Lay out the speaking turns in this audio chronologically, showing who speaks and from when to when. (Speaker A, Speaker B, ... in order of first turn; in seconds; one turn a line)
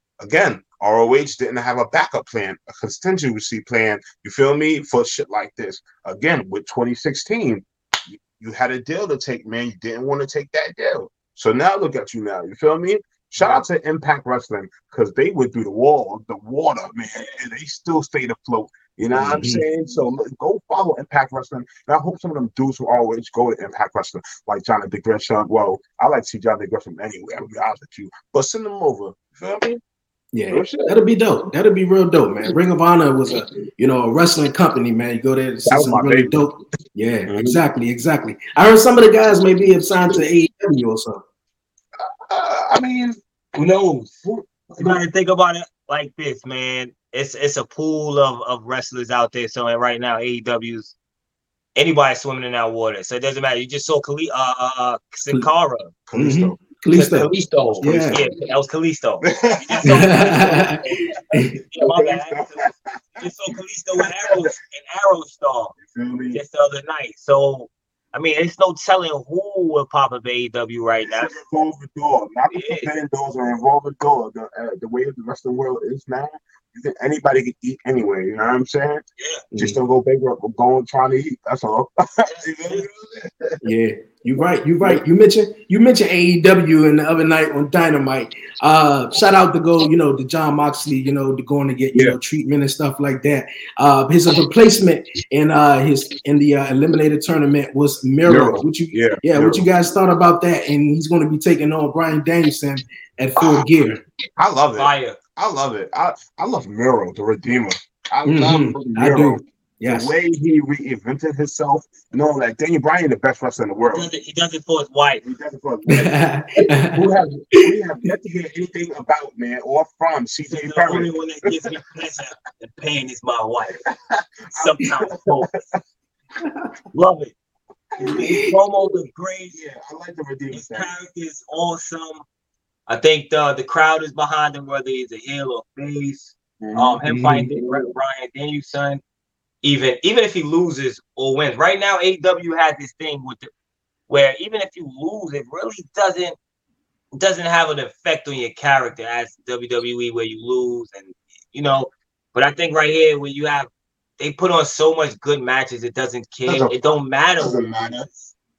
Speaker A: 0.2-29.8
Speaker B: 13.4-13.6
Speaker C: 19.1-19.6
Speaker C: 30.3-41.2
Speaker A: 30.5-30.9
Speaker A: 35.7-36.5
Speaker A: 37.3-37.6
Speaker A: 42.0-43.2
Speaker B: 43.5-44.2
Speaker A: 44.2-45.0
Speaker B: 44.8-50.9
Speaker B: 51.8-55.9
Speaker A: 56.1-56.6
Speaker C: 56.1-58.2
Speaker B: 56.9-61.0
Speaker A: 57.7-58.4
Speaker A: 59.2-60.2
Speaker C: 59.8-60.8
Speaker C: 61.3-61.6
Speaker B: 61.7-65.8
Speaker A: 61.7-63.2
Speaker A: 64.0-64.5
Speaker A: 65.8-66.4
Speaker B: 66.3-71.3
Speaker A: 71.0-79.0
Speaker B: 72.5-72.9
Speaker B: 79.2-79.4
Speaker C: 79.5-79.8
Speaker A: 79.5-83.6
Speaker C: 83.6-104.0
Speaker A: 98.2-99.7
Speaker A: 103.4-103.7
Speaker A: 104.4-114.1
Speaker B: 104.8-105.2
Speaker C: 108.2-110.1
Speaker B: 113.9-115.2
Speaker A: 115.2-116.1
Speaker C: 115.9-117.0
Speaker A: 116.9-121.7
Speaker B: 120.5-123.8
Speaker A: 123.8-125.8
Speaker B: 124.5-125.5
Speaker B: 126.9-127.3
Speaker C: 128.0-128.5
Speaker B: 128.1-129.6
Speaker A: 129.5-130.9
Speaker B: 130.5-132.2
Speaker B: 132.9-139.0
Speaker A: 136.6-137.0
Speaker C: 137.0-137.5
Speaker A: 137.6-137.8
Speaker B: 139.6-143.5
Speaker B: 144.1-146.4
Speaker B: 147.1-157.6
Speaker A: 156.4-158.1